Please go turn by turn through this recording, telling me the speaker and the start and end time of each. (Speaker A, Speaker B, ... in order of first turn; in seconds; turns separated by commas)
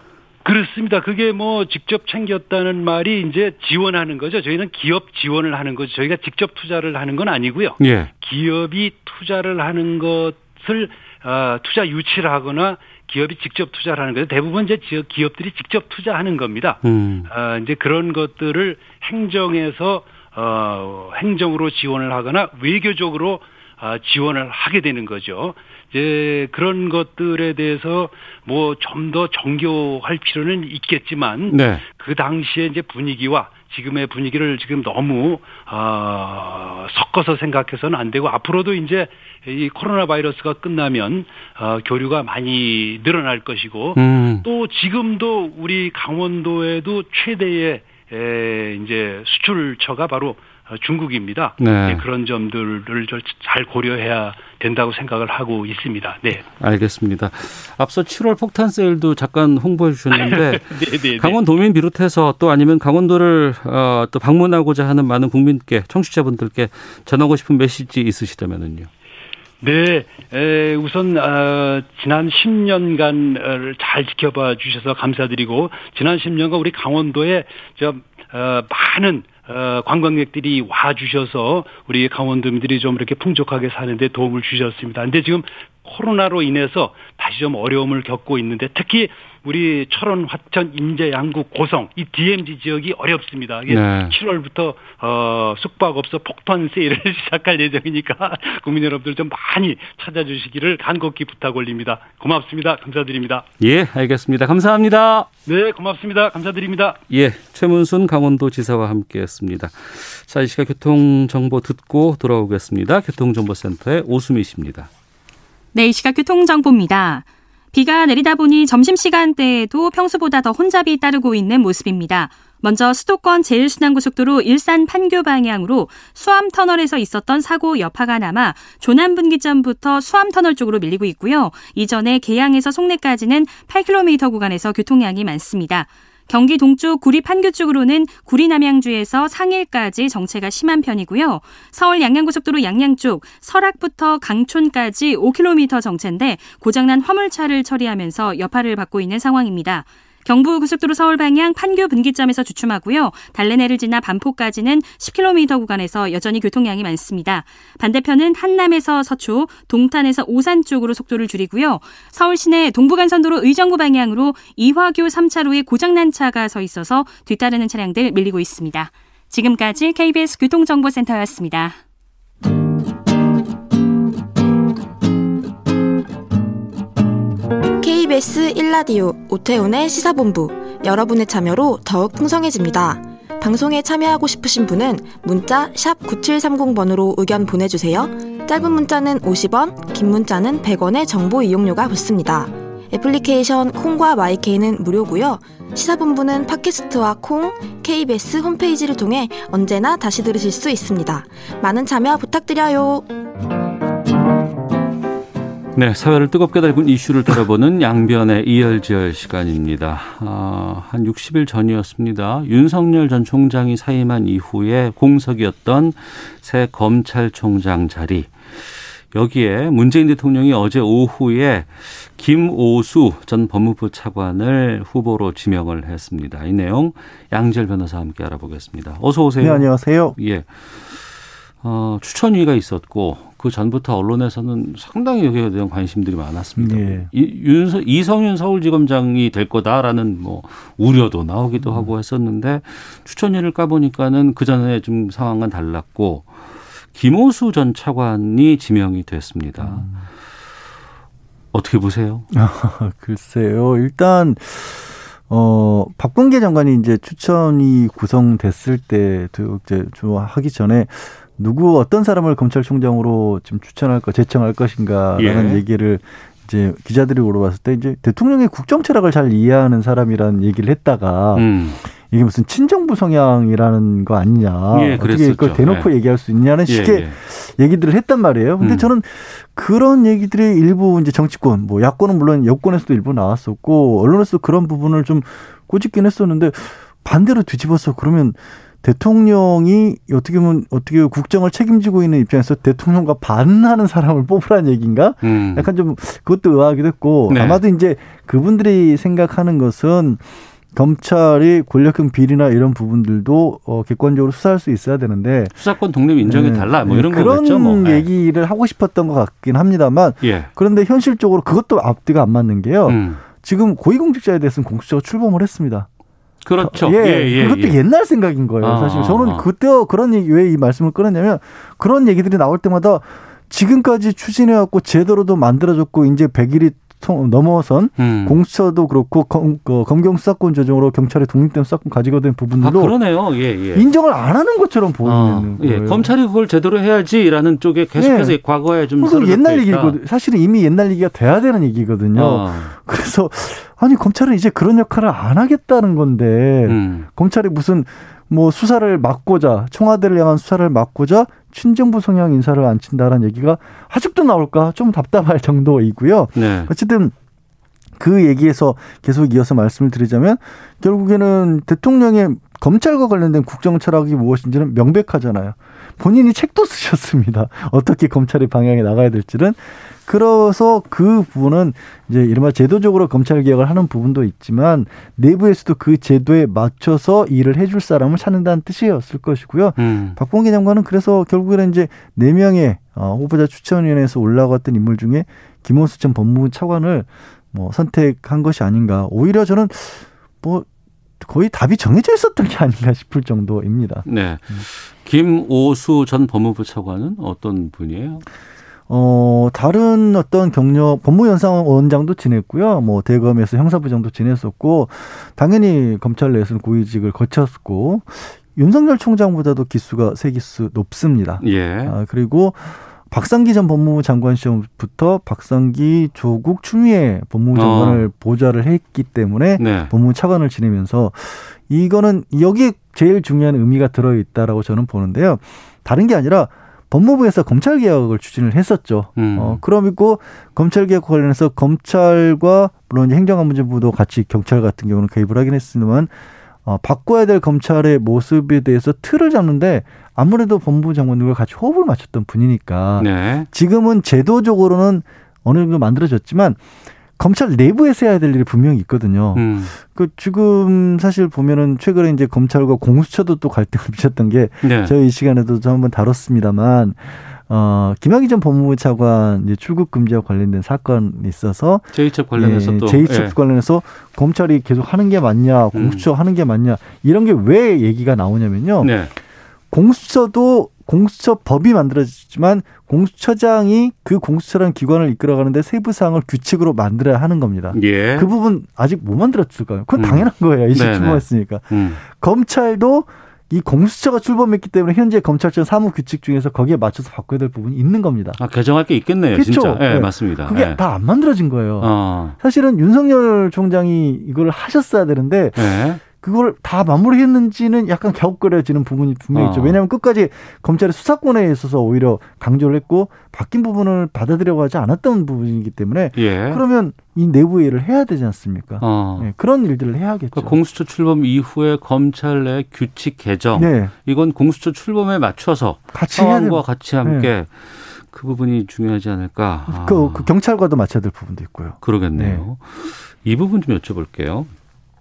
Speaker A: 0.4-56.4, Speaker B: 7.8-8.1, Speaker B: 16.8-17.3, Speaker B: 31.5-31.8, Speaker B: 44.0-44.5, Speaker B: 51.6-52.0, Speaker B: 56.5-68.9, Speaker A: 60.1-61.4, Speaker A: 69.6-103.5, Speaker B: 93.7-94.2, Speaker B: 103.6-105.3, Speaker A: 105.5-107.0, Speaker B: 107.1-114.9, Speaker C: 115.7-171.8, Speaker D: 177.8-203.1, Speaker B: 205.7-231.0, Speaker E: 229.4-230.2, Speaker B: 231.6-246.3, Speaker E: 236.6-237.1, Speaker E: 241.6-241.9, Speaker B: 246.9-249.8, Speaker E: 249.6-250.1, Speaker B: 251.5-252.3, Speaker E: 252.3-271.5, Speaker B: 265.2-265.6, Speaker B: 271.3-271.8, Speaker E: 272.1-305.5, Speaker B: 274.7-275.9, Speaker B: 276.6-277.2, Speaker B: 278.6-278.9, Speaker B: 295.2-295.7, Speaker B: 297.3-297.6, Speaker B: 305.5-308.1, Speaker E: 306.2-315.9, Speaker B: 310.2-310.5, Speaker B: 312.9-313.2, Speaker B: 316.4-317.8, Speaker E: 316.6-332.9, Speaker B: 318.6-319.4, Speaker B: 328.0-328.4, Speaker B: 332.6-333.9, Speaker E: 333.7-336.1, Speaker B: 335.0-340.0, Speaker E: 337.9-357.1, Speaker B: 342.1-342.7, Speaker B: 346.6-347.1, Speaker B: 356.3-356.7, Speaker E: 358.0-390.7, Speaker B: 379.8-380.2, Speaker E: 391.2-394.6, Speaker B: 394.1-398.2, Speaker E: 398.9-436.1, Speaker B: 411.4-411.9, Speaker B: 417.5-418.1, Speaker B: 419.6-419.9, Speaker B: 429.1-429.6, Speaker E: 436.6-446.6, Speaker B: 443.0-443.5, Speaker E: 447.2-468.9, Speaker B: 449.3-449.8, Speaker B: 454.6-454.9, Speaker B: 461.9-463.4, Speaker B: 465.7-466.1, Speaker B: 468.8-469.1, Speaker E: 469.7-488.4, Speaker B: 477.7-478.3, Speaker B: 479.9-482.0, Speaker B: 488.4-490.8, Speaker E: 489.3-510.6, Speaker B: 491.8-492.4, Speaker B: 495.6-496.0, Speaker B: 499.3-499.8, Speaker B: 506.1-506.6, Speaker B: 508.8-509.3, Speaker B: 510.3-520.3, Speaker E: 513.5-513.9, Speaker E: 515.9-517.3, Speaker E: 519.7-522.4, Speaker B: 521.8-524.5